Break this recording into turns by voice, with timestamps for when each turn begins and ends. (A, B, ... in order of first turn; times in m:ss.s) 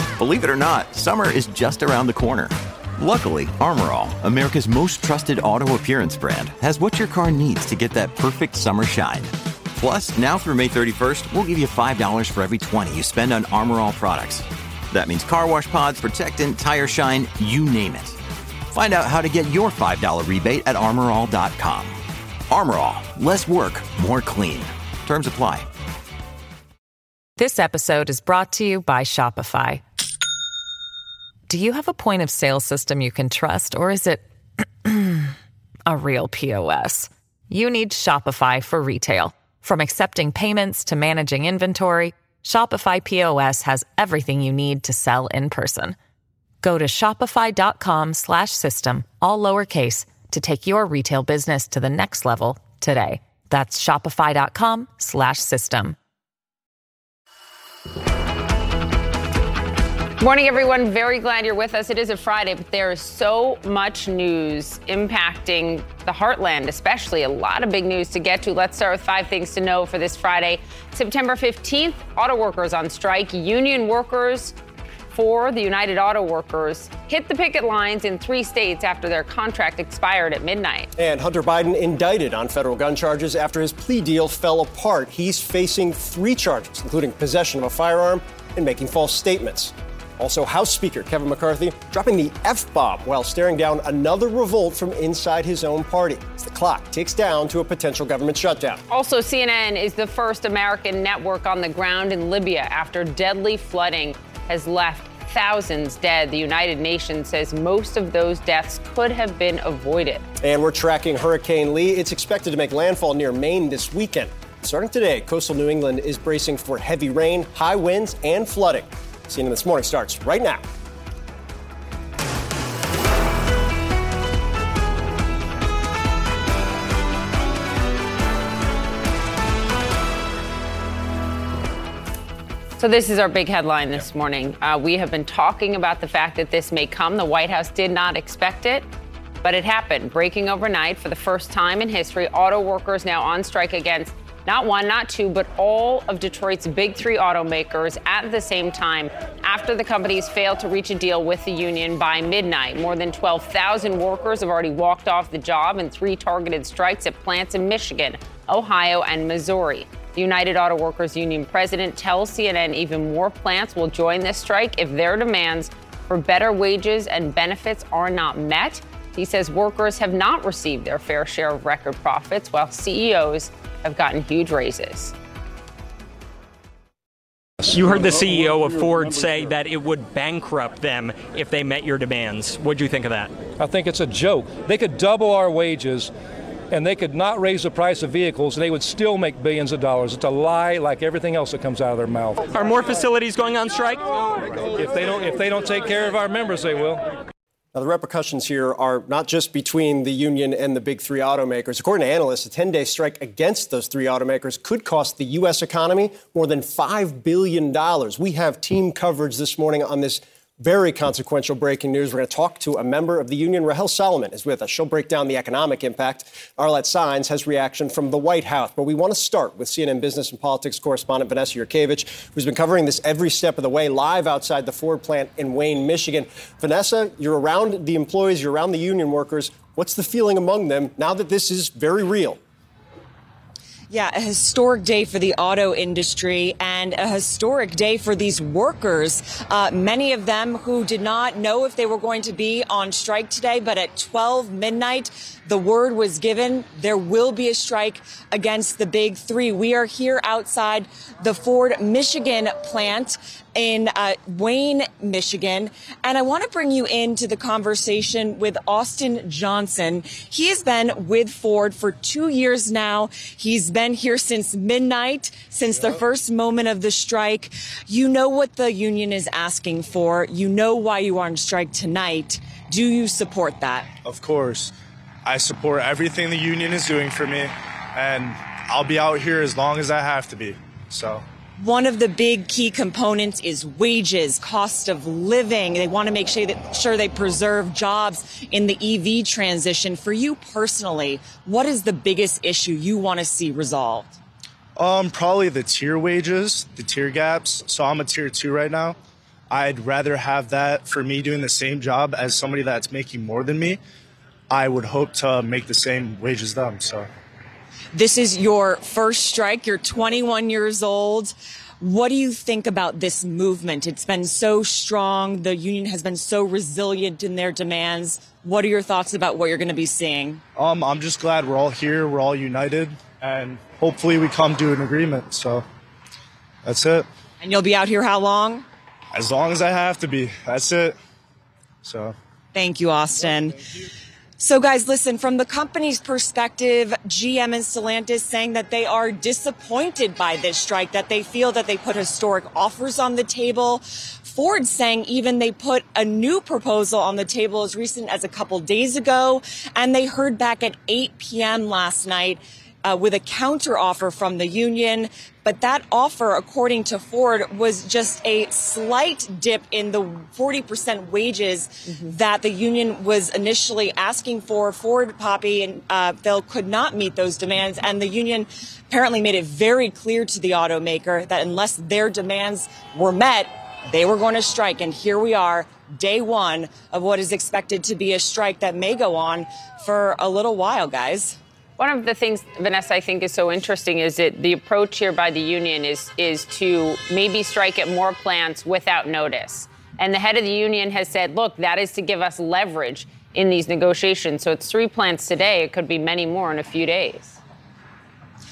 0:00.2-0:18.2 A
0:18.7-0:25.7 A
0:27.4-0:29.8 B
0:31.5-0:34.3 B
0:34.8-0:35.3 B
0:35.9-0:46.0 B
0:46.6-0:56.0 B
1:00.2-1:14.6 C
1:15.1-1:20.9 C
1:21.0-1:38.8 D
1:38.9-1:50.2 C
1:50.4-2:00.6 D
2:12.8-2:18.9 C
2:19.4-2:55.1 C
2:57.7-3:03.3 E
3:03.6-3:06.1 F
3:06.7-3:12.5 F
3:12.5-3:14.1 E
3:14.6-3:17.1 F
3:17.7-3:52.4 D
3:53.9-4:33.9 G
4:34.0-4:34.7 H
4:35.2-4:41.2 H
4:41.6-4:54.2 G
4:54.8-4:59.0 H
4:59.5-5:03.8 H
5:04.5-5:07.1 H
5:07.9-5:20.4 G
5:20.6-5:25.6 H
5:26.6-5:27.1 H
5:27.4-5:28.7 G
5:29.1-5:31.0 H
5:31.8-5:32.2 H
5:32.5-5:33.6 G
5:34.4-6:21.4 G
6:21.8-6:37.4 C